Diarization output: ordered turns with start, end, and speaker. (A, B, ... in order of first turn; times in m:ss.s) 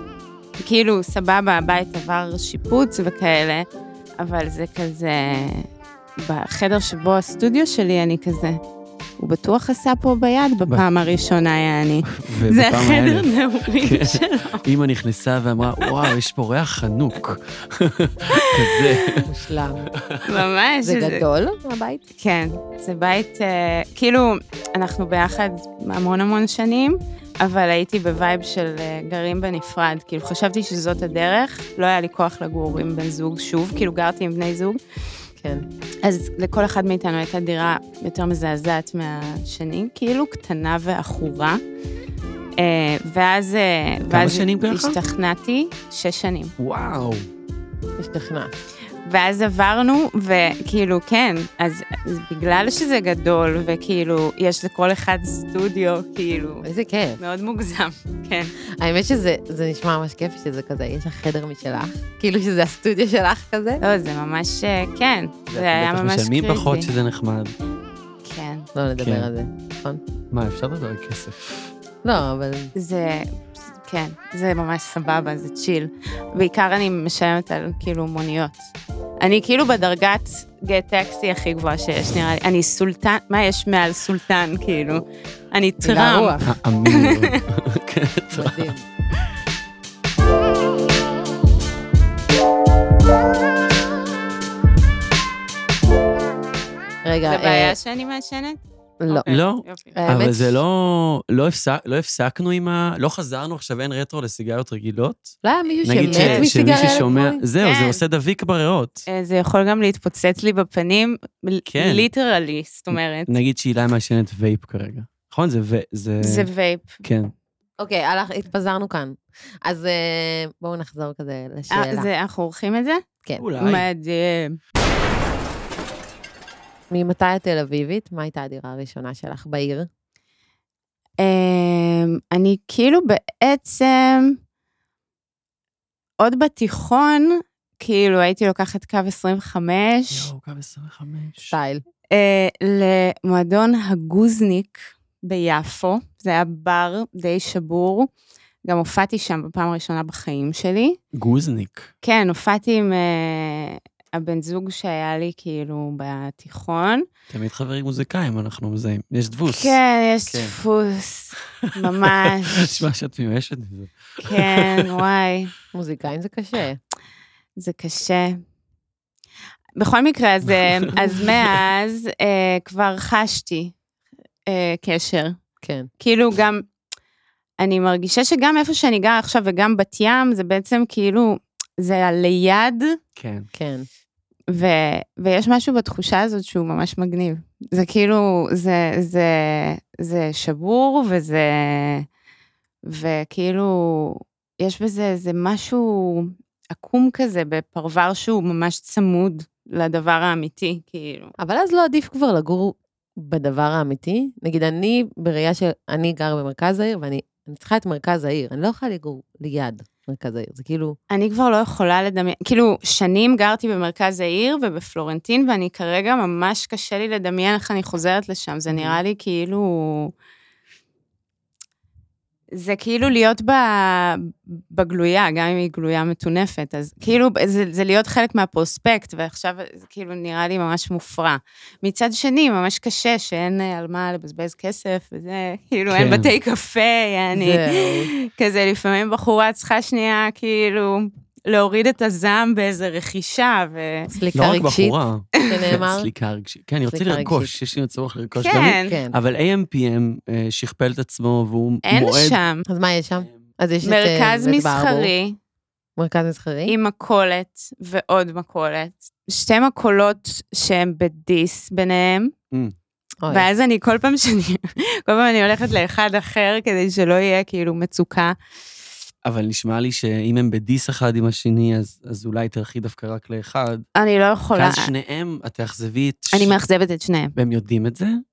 0:00.6-0:03.7 A
0:04.2-0:05.7 A
0:06.2-0:08.6 A
0:09.2-0:14.6 A
0:12.1-0:13.3 B
0:13.8-0:19.3 B
0:18.4-0:19.2 A
0:19.3-0:19.9 C
0:19.9-0:20.2 B
0:20.2-0:21.2 A
0:20.8-0:22.0 C
0:22.2-0:34.8 A
0:35.4-0:35.7 C
0:36.0-0:41.6 A
0:42.6-0:46.5 A
0:44.1-0:45.0 B
0:46.6-0:47.3 B
0:48.0-0:48.6 C
0:49.0-0:56.6 A
0:56.6-0:57.2 C
0:57.2-0:58.5 A
0:58.8-1:03.8 C
1:03.8-1:06.9 A
1:05.5-1:07.6 B
1:08.2-1:08.7 A
1:08.7-1:10.0 C
1:09.0-1:09.3 B
1:10.3-1:11.7 B
1:12.0-1:12.7 C
1:12.8-1:13.3 A
1:13.8-1:18.6 A
1:19.2-1:26.4 A
1:25.8-1:26.5 C
1:26.4-1:28.7 B
1:27.0-1:27.4 A
1:28.3-1:28.9 C
1:37.0-1:37.8 C
1:37.2-1:40.0 A
1:39.0-1:39.3 C
1:39.3-1:49.0 B
1:39.9-1:40.6 C
1:45.4-1:47.4 C
1:46.0-1:48.0 A
1:49.1-1:53.3 A
1:51.7-1:52.1 B
1:53.3-1:56.5 B
1:56.2-1:57.0 A
1:57.0-1:57.3 B
1:57.8-2:02.1 C
2:01.7-2:03.0 A
2:03.4-2:03.9 B
2:03.6-2:04.6 A
2:06.9-2:09.9 C
2:11.2-2:14.4 A
2:16.2-2:20.3 A
2:20.1-2:21.5 B
2:21.5-2:21.8 C
2:22.1-2:28.1 A
2:28.6-2:31.0 A
2:31.1-2:31.9 B
2:32.0-2:37.0 A
2:37.3-2:39.8 B
2:39.5-2:42.8 A
2:41.6-2:44.9 B
2:44.2-2:45.5 A
2:45.7-2:46.8 C
2:47.6-2:48.4 A
2:49.8-2:53.8 A
2:50.5-2:51.4 B
2:54.5-2:55.4 A
2:55.6-2:55.9 C
2:56.0-2:56.7 A
2:57.6-3:03.0 A
3:03.2-3:03.5 B
3:03.5-3:03.9 C
3:04.5-3:12.1 A
3:12.9-3:21.3 A
3:21.4-3:31.0 C
3:31.1-3:40.1 A
3:38.7-3:39.0 C
3:42.5-4:04.1 A
3:55.9-3:56.3 B
3:57.3-3:58.1 C
4:04.1-4:06.1 C
4:04.3-4:12.4 B
4:06.9-4:07.5 C
4:08.4-4:08.9 A
4:08.8-4:09.2 C
4:11.8-4:12.6 A
4:12.7-4:15.1 C
4:13.8-4:15.4 A
4:16.0-4:16.8 C
4:16.7-4:22.3 A
4:23.2-4:23.5 C
4:23.3-4:28.4 A
4:29.2-4:33.8 B
4:34.0-4:34.9 A
4:34.6-4:36.6 B
4:36.3-4:37.3 A
4:37.4-4:38.2 B